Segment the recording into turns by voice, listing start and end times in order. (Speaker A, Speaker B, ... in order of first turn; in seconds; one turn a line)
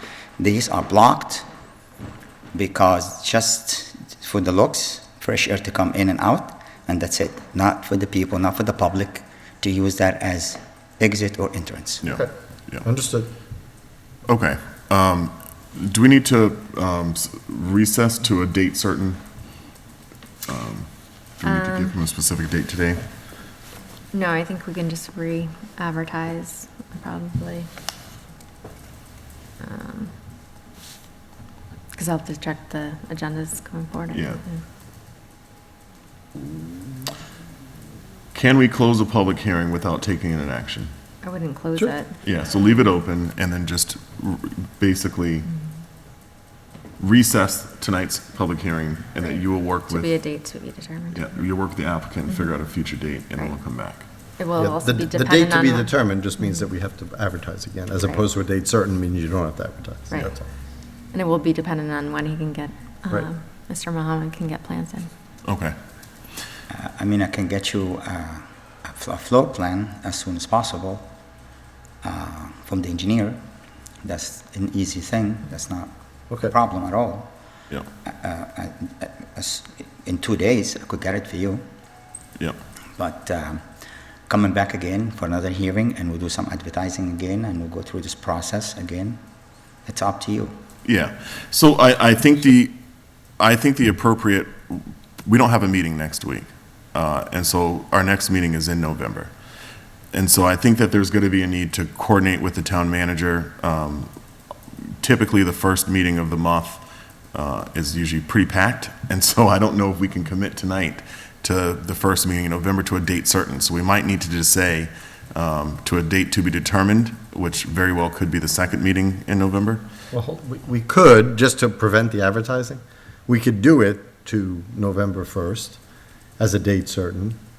Speaker A: 0.4-1.5
Speaker A: 2.5-12.1
Speaker B: 12.0-12.8
Speaker C: 12.8-13.3
Speaker B: 14.3-19.2
Speaker B: 20.5-23.0
Speaker D: 21.4-21.9
Speaker D: 24.1-27.7
Speaker D: 29.6-30.1
Speaker D: 31.9-34.6
Speaker B: 34.1-34.4
Speaker B: 38.3-40.9
Speaker D: 41.2-42.2
Speaker B: 42.2-45.5
Speaker B: 47.0-50.1
Speaker D: 49.9-51.4
Speaker B: 51.1-54.0
Speaker D: 54.4-56.0
Speaker C: 54.6-60.4
Speaker D: 61.1-65.1
Speaker B: 65.5-65.8
Speaker A: 66.7-71.1
Speaker A: 72.0-73.4
Speaker A: 74.0-77.3
Speaker A: 78.0-81.6
Speaker A: 83.0-83.7
Speaker A: 84.3-89.2
Speaker A: 89.9-90.6
Speaker B: 90.8-92.8
Speaker B: 93.4-99.3
Speaker B: 100.1-104.1
Speaker B: 105.0-119.8
Speaker C: 120.1-125.8
Speaker C: 126.4-127.4